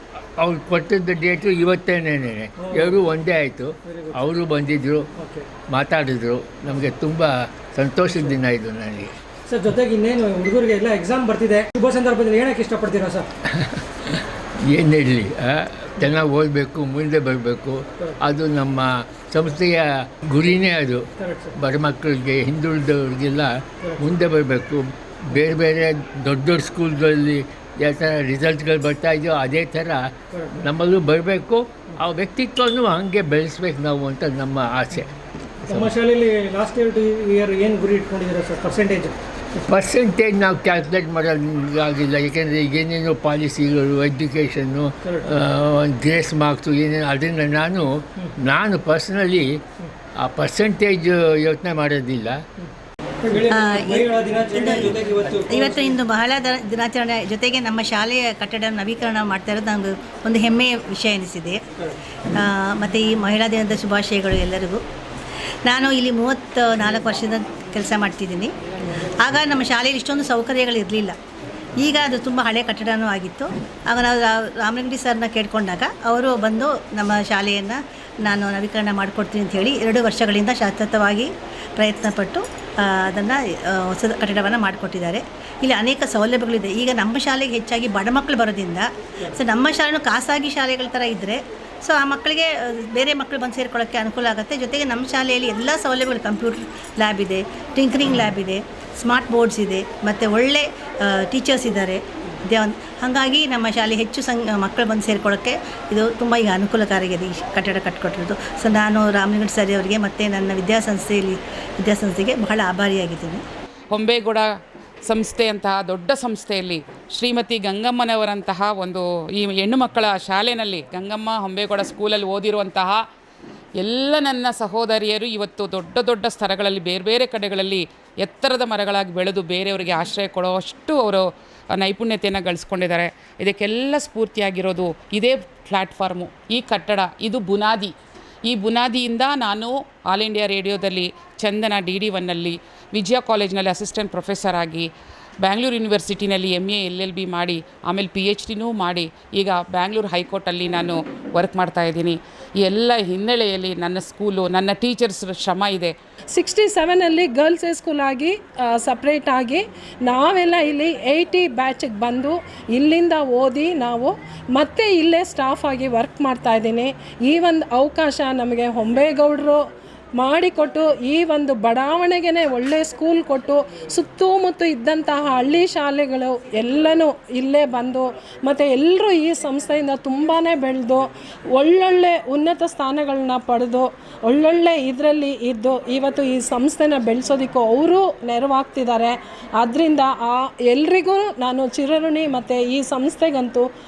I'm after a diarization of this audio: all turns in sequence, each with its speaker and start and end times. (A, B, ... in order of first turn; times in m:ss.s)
0:00.4-0:05.1 A
0:02.6-0:03.0 B
0:03.9-0:04.2 B
0:05.2-0:05.5 B
0:05.7-0:09.1 A
0:09.5-0:13.3 B
0:13.5-0:21.0 A
0:21.2-0:21.5 B
0:21.6-0:35.9 A
0:23.8-0:24.0 B
0:30.3-0:30.6 B
0:35.7-0:39.1 B
0:39.7-0:49.6 A
0:45.0-0:45.3 B
0:50.2-0:52.4 A
0:53.2-0:56.0 B
0:53.5-1:01.6 C
1:02.3-1:04.8 C
1:05.6-1:08.5 C
1:09.0-1:11.2 C
1:11.8-1:53.4 C
1:53.9-1:54.4 D
1:55.0-2:03.0 D
2:03.8-2:17.9 D
2:18.5-2:24.9 D
2:25.4-2:35.9 D
2:36.3-2:49.6 E
2:50.2-3:13.7 E